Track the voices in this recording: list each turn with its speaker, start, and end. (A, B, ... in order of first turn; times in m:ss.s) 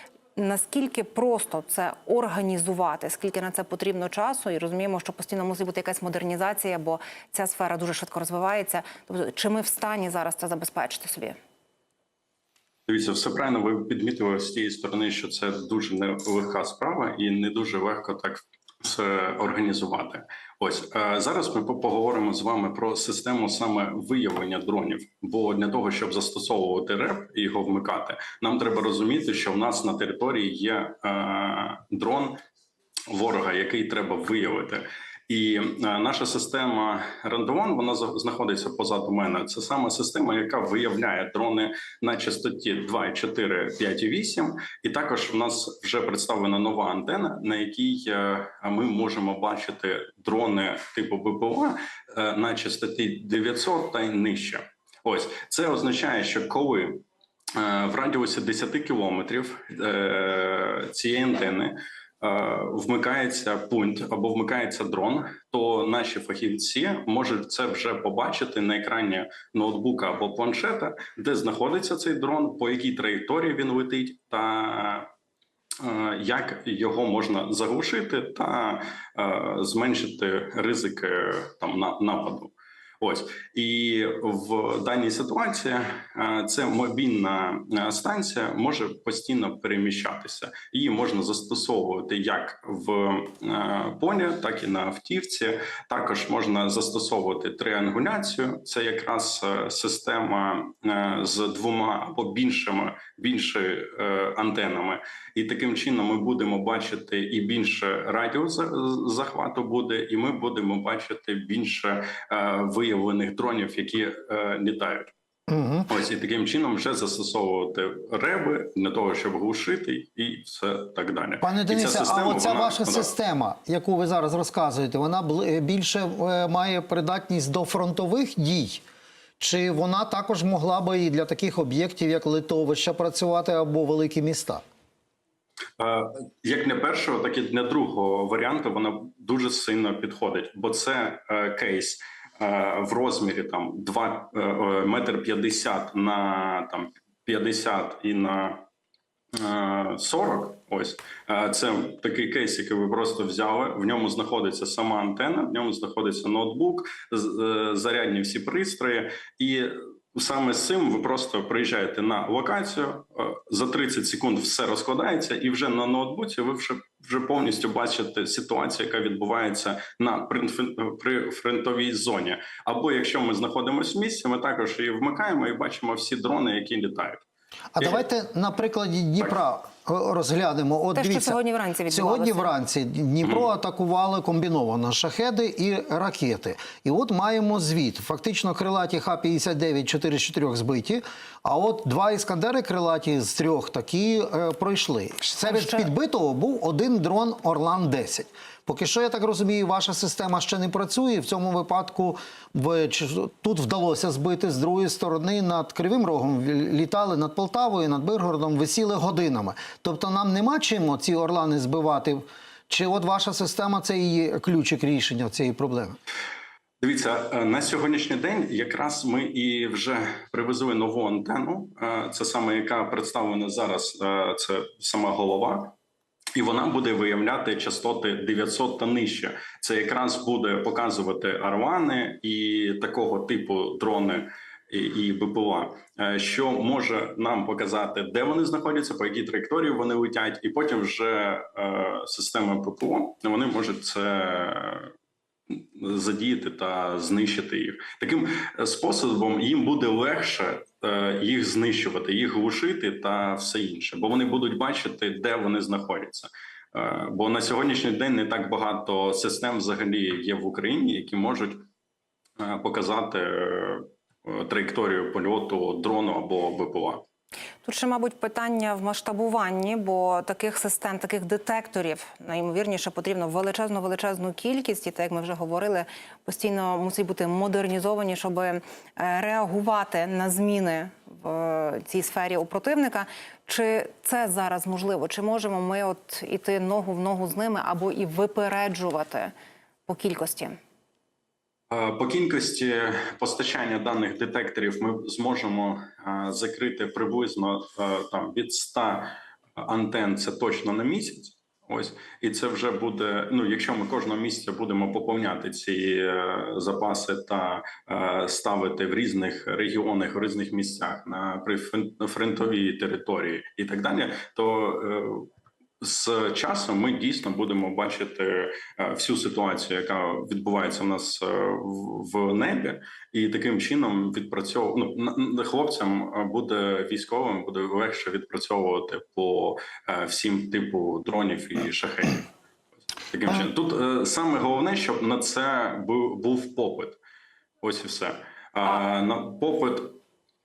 0:00.4-0:11.3 A
0:12.9-0:32.4 B
0:33.1-0:57.0 B
0:57.5-1:15.1 B
1:15.8-1:55.1 B
1:55.5-1:55.9 C
1:55.9-2:03.1 B
2:01.4-2:08.8 C
2:09.4-2:14.6 C
2:15.8-2:28.6 B
2:29.3-2:57.2 B
2:57.8-3:01.3 C
3:00.9-3:02.5 A
3:01.9-3:36.0 C
3:15.4-3:15.9 A
3:36.8-3:45.7 B
3:46.4-4:04.9 B
4:05.5-4:21.6 B
4:22.4-4:27.0 B
4:27.6-4:49.3 A
4:49.9-4:50.6 A
4:51.7-5:15.3 B
5:15.8-5:32.3 B
5:33.1-5:37.0 B
5:37.6-5:40.0 B